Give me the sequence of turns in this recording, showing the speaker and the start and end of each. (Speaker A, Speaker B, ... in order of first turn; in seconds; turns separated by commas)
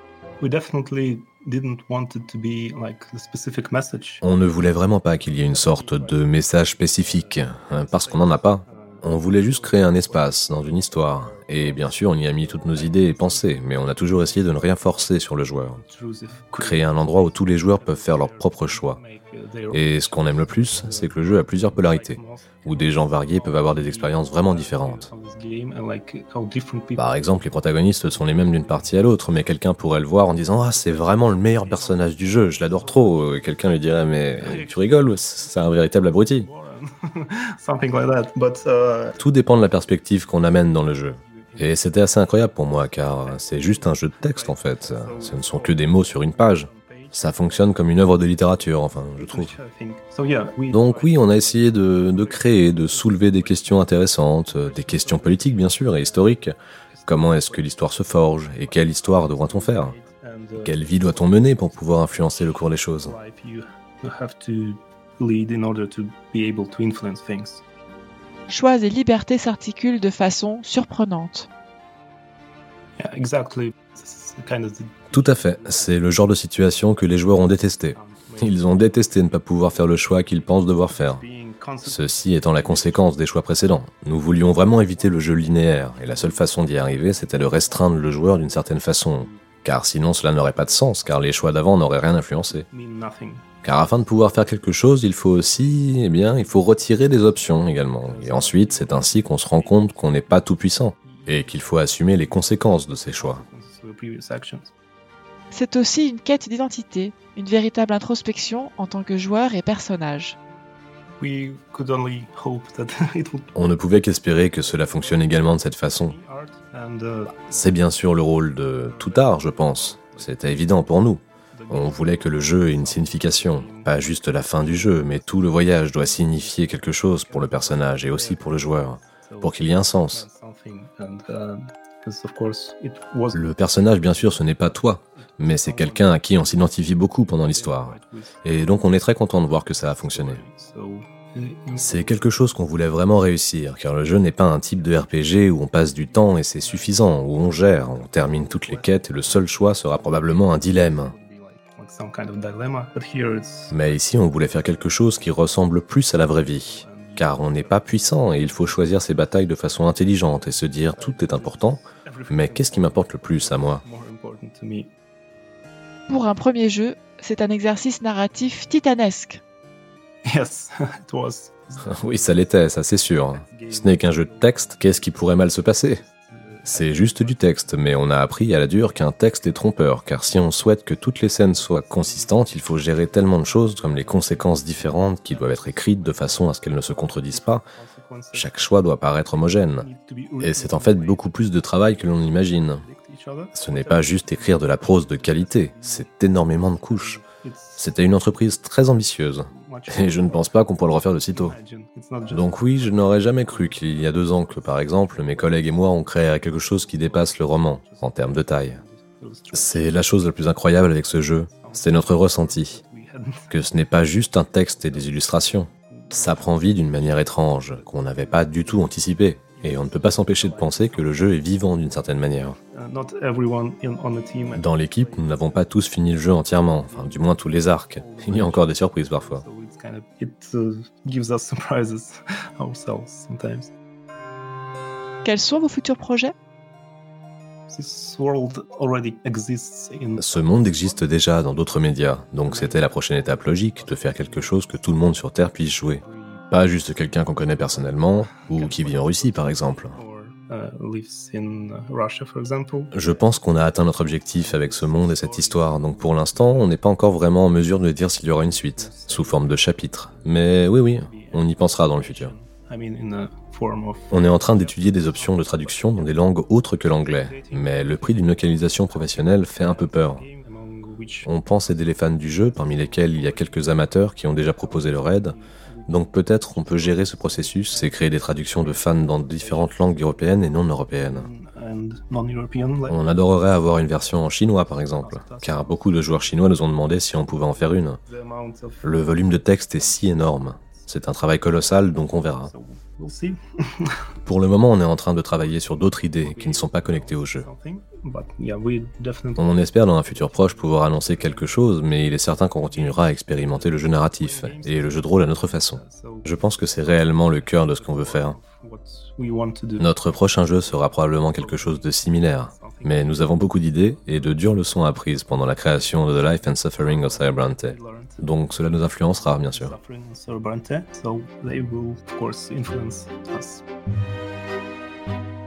Speaker A: 0.4-4.2, Speaker B: 4.2-15.8, Speaker A: 5.2-15.2, Speaker A: 15.7-27.2, Speaker B: 16.6-19.0, Speaker B: 19.7-25.1, Speaker B: 27.0-36.5, Speaker A: 28.0-29.4, Speaker A: 30.3-33.4, Speaker A: 34.4-39.2, Speaker B: 39.2-49.6, Speaker A: 41.0-47.8, Speaker A: 48.6-67.6, Speaker B: 50.7-56.5, Speaker B: 57.1-60.0, Speaker B: 60.6-63.1, Speaker C: 68.5-71.5, Speaker A: 73.0-83.2, Speaker B: 75.1-81.2, Speaker B: 81.8-92.7, Speaker A: 84.3-89.5, Speaker A: 90.2-91.8, Speaker A: 92.7-93.5, Speaker B: 93.6-103.4, Speaker A: 95.7-104.7, Speaker C: 105.5-110.4, Speaker A: 111.2-113.5, Speaker B: 113.5-116.2, Speaker A: 114.3-118.0, Speaker B: 117.5-130.2, Speaker A: 118.8-121.0, Speaker A: 121.5-133.5, Speaker B: 133.3-140.4, Speaker A: 135.4-142.3, Speaker B: 141.8-151.2, Speaker A: 144.7-145.1, Speaker A: 145.8-153.8, Speaker B: 153.7-163.8, Speaker A: 156.5-164.9, Speaker C: 166.1-169.4, Speaker A: 170.3-172.4, Speaker B: 171.8-176.0, Speaker A: 173.3-177.9, Speaker B: 176.7-187.7, Speaker A: 181.5-188.7, Speaker B: 188.3-189.9, Speaker A: 189.6-198.1, Speaker B: 190.4-192.8, Speaker B: 193.5-197.2, Speaker B: 197.8-201.6, Speaker A: 199.5-200.6, Speaker A: 201.3-213.6, Speaker B: 202.3-208.8, Speaker B: 209.5-212.8, Speaker B: 213.5-222.6, Speaker A: 214.7-221.6, Speaker A: 222.7-225.7, Speaker B: 224.5-229.4, Speaker A: 226.8-233.7, Speaker C: 235.2-236.3, Speaker A: 237.7-241.1, Speaker B: 240.2-250.0, Speaker A: 242.4-245.3, Speaker A: 245.9-246.5, Speaker A: 247.6-256.8, Speaker B: 252.9-262.4, Speaker A: 258.4-266.3, Speaker B: 264.1-270.2, Speaker A: 266.9-283.2, Speaker B: 271.2-275.4, Speaker B: 275.9-281.3, Speaker B: 282.9-288.0, Speaker A: 284.6-286.7, Speaker A: 287.3-294.0, Speaker B: 288.8-292.5, Speaker B: 294.3-297.5, Speaker A: 295.3-301.8, Speaker B: 299.4-308.4, Speaker A: 302.6-309.9, Speaker B: 309.8-319.7, Speaker A: 310.7-313.5, Speaker A: 314.1-314.4, Speaker A: 315.9-323.6